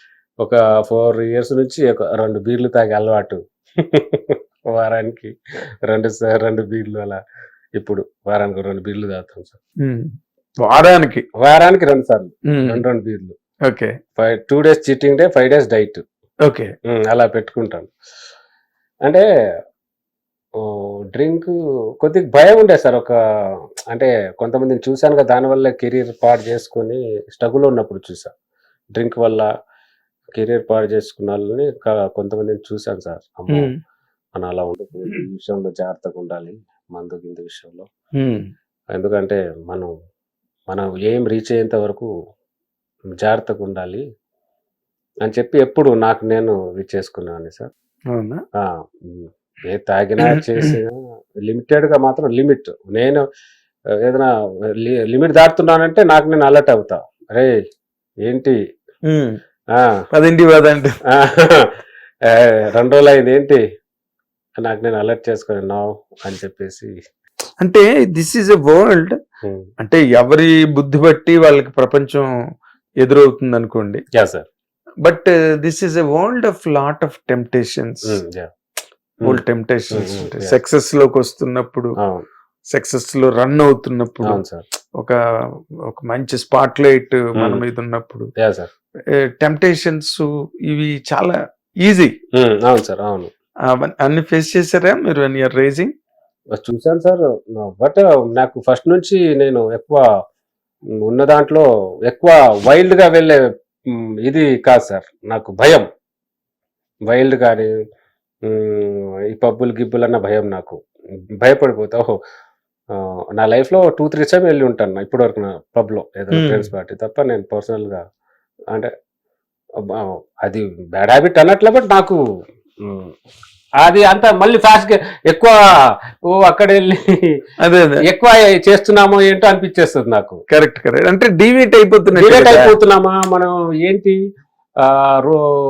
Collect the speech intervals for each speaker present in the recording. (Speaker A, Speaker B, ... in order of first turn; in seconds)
Speaker A: 0.4-3.4, 3.9-5.3, 5.9-7.2, 7.8-9.6, 11.4-13.3, 14.2-16.0, 16.9-17.9, 21.1-23.2, 23.9-28.3, 28.9-29.5, 30.4-33.7, 34.4-37.9, 38.9-39.9, 40.7-42.1, 43.2-44.0, 45.3-47.7, 49.1-53.2, 54.0-54.3, 54.8-57.5, 58.3-58.6, 61.1-61.6, 62.5-63.6, 64.6-66.9, 74.2-74.5, 78.1-78.5, 79.9-80.5, 84.2-84.6, 88.4-88.7, 92.4-93.3, 96.6-100.0, 101.1-103.4, 104.3-105.8, 107.1-107.7, 108.5-110.8, 111.4-112.1, 113.3-118.0, 120.0-122.2, 123.8-125.6, 126.3-127.0, 128.1-130.4, 132.2-134.2, 134.8-135.4
Speaker B: 9.8-10.1, 10.6-11.2, 12.5-12.8, 13.7-13.9, 16.5-16.7, 33.5-33.8, 38.2-38.5, 48.1-48.4, 59.1-59.4, 60.1-61.0, 67.6-69.2, 69.8-72.3, 73.0-74.0, 75.0-78.2, 79.2-82.0, 82.7-84.4, 85.9-88.3, 89.4-92.1, 93.8-95.9, 116.3-116.7, 127.6-128.0, 130.5-132.7